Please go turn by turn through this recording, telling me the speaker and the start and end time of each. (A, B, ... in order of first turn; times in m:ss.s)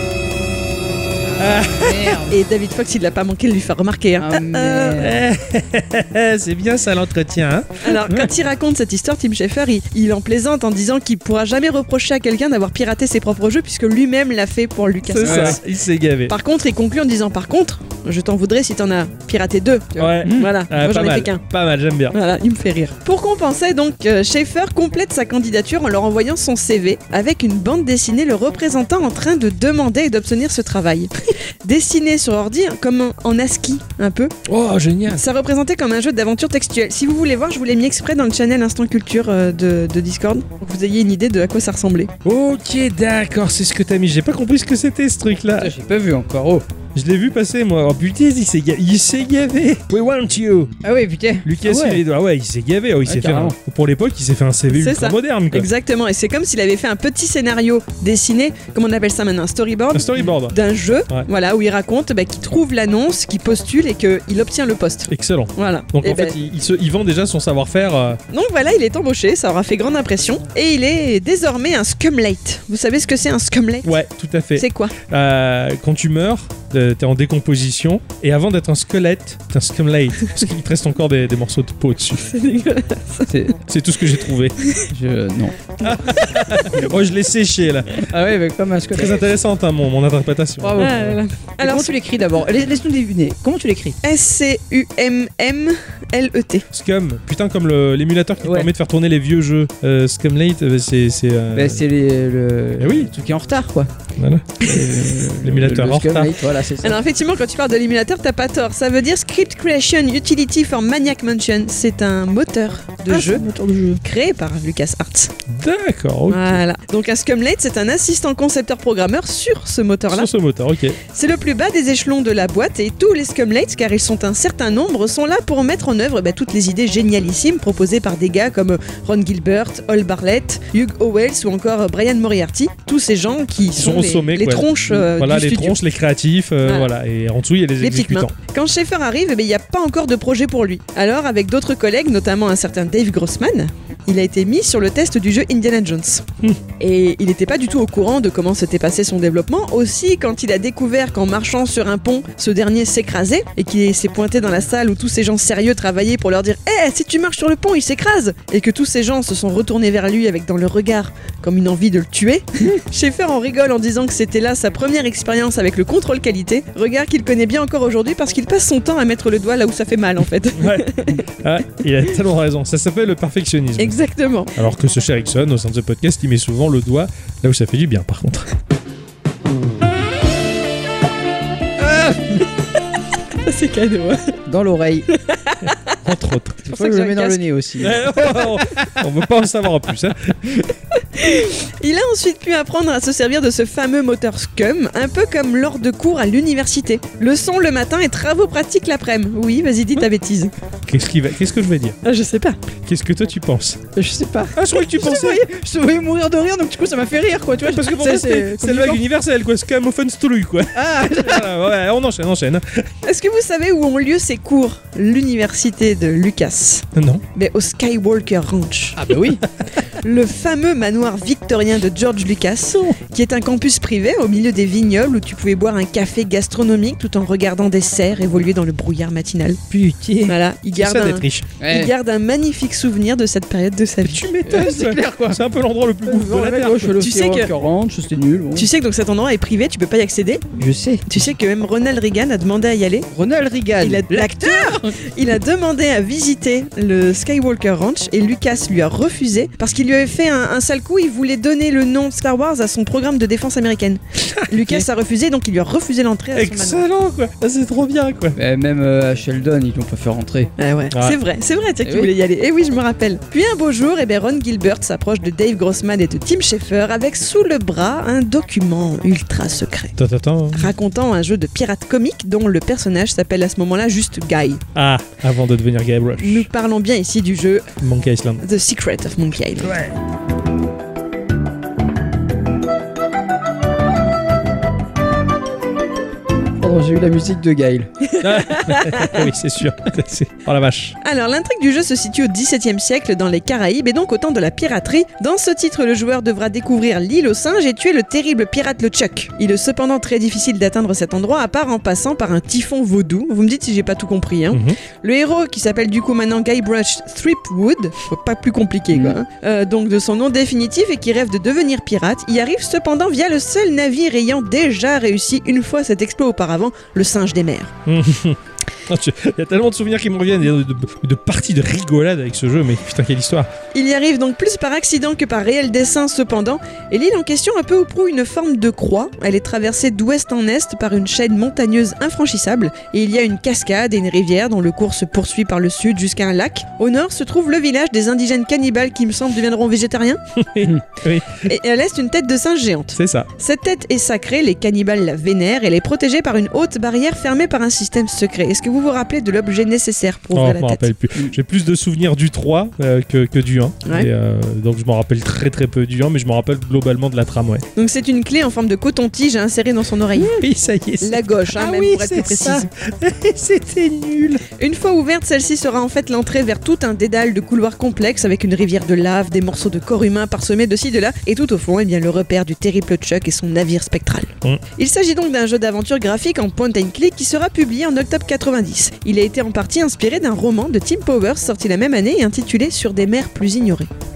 0:01.3-0:02.4 A
0:01.4-0:02.2 B
0:02.3-0:05.0 C
0:04.2-0:05.2 A
0:05.0-0:08.2 B
0:07.8-0:15.6 C
0:15.0-0:16.3 B
0:15.2-0:15.6 A
0:16.3-0:21.4 C
0:20.0-0:22.2 B
0:20.2-0:20.5 A
0:22.1-0:31.1 C
0:31.6-0:34.3 C
0:34.4-0:35.2 B
0:35.1-0:42.1 C
0:42.2-0:45.7 B
0:45.6-0:46.6 A
0:46.9-0:50.7 B
0:50.8-0:52.0 A
0:51.4-0:55.7 B
0:53.1-0:53.5 A
0:54.7-1:06.3 C
0:59.9-1:00.6 B
1:05.1-1:08.2 B
1:08.3-1:13.9 C
1:13.8-1:22.3 B
1:14.6-1:14.9 C
1:22.2-1:23.3 C
1:23.3-1:23.6 A
1:23.6-1:24.5 B
1:24.8-1:25.8 A
1:25.8-1:28.1 B
1:28.1-1:29.2 A
1:28.9-1:31.2 B
1:30.6-1:31.0 A
1:30.8-1:31.9 C
1:31.6-1:34.0 A
1:34.0-1:36.6 C
1:36.7-1:41.8 B
1:38.4-1:38.7 A
1:41.5-1:43.9 A
1:42.8-1:43.1 B
1:44.2-1:46.4 B
1:44.6-1:47.0 A
1:46.8-1:53.4 C
1:53.1-1:54.0 A
1:54.0-1:55.3 C
1:55.5-1:56.6 B
1:56.3-2:00.3 C
2:00.1-2:01.0 B
2:01.1-2:15.8 C
2:13.7-2:18.3 B
2:16.6-2:16.9 C
2:17.8-2:26.2 C
2:26.8-2:51.2 C
2:50.6-2:54.0 B
2:53.8-2:54.5 C
2:54.5-2:58.5 B
3:03.4-3:04.4 C
3:04.5-3:05.1 A
3:05.1-3:06.0 C
3:06.0-3:06.7 B
3:06.7-3:07.4 C
3:06.7-3:08.0 A
3:07.8-3:10.6 B
3:11.1-3:20.5 C
3:20.9-3:22.0 B
3:22.0-3:22.6 C
3:22.8-3:23.9 B
3:23.9-3:29.0 A
3:24.5-3:25.4 B
3:27.6-3:32.8 B
3:30.7-3:31.5 A
3:33.0-3:39.0 C
3:36.9-3:37.2 B
3:39.0-3:39.4 A
3:40.0-3:49.6 C
3:49.7-3:50.4 A
3:50.2-3:54.3 C
3:50.7-3:51.5 B
3:51.6-3:51.9 A
3:54.0-3:57.0 B
3:54.4-3:55.4 A
3:56.0-3:58.7 A
3:57.0-3:57.5 C
3:58.5-4:00.5 C
4:00.6-4:01.0 A
4:01.0-4:03.1 C
4:03.1-4:05.0 A
4:03.8-4:16.8 C
4:16.3-4:18.4 B
4:18.4-4:20.5 A
4:20.6-4:30.0 C
4:20.9-4:21.2 B
4:21.8-4:22.1 A
4:30.0-4:30.7 B
4:30.5-4:34.6 C
4:34.7-4:36.5 B
4:36.2-4:37.7 C
4:37.8-4:38.4 B
4:38.4-4:39.7 C
4:39.6-4:39.9 B
4:46.6-4:47.9 A
4:48.1-4:49.2 C
4:48.2-4:51.0 B
4:51.0-5:17.7 C
5:04.5-5:04.8 B
5:17.8-5:23.5 B
5:23.7-5:40.2 C
5:40.4-5:41.5 B
5:41.4-5:50.9 C
5:43.0-5:43.3 B
5:50.3-5:57.6 B
5:57.8-6:00.4 C
6:00.2-6:04.4 B
6:01.0-6:02.7 C
6:04.6-6:23.9 C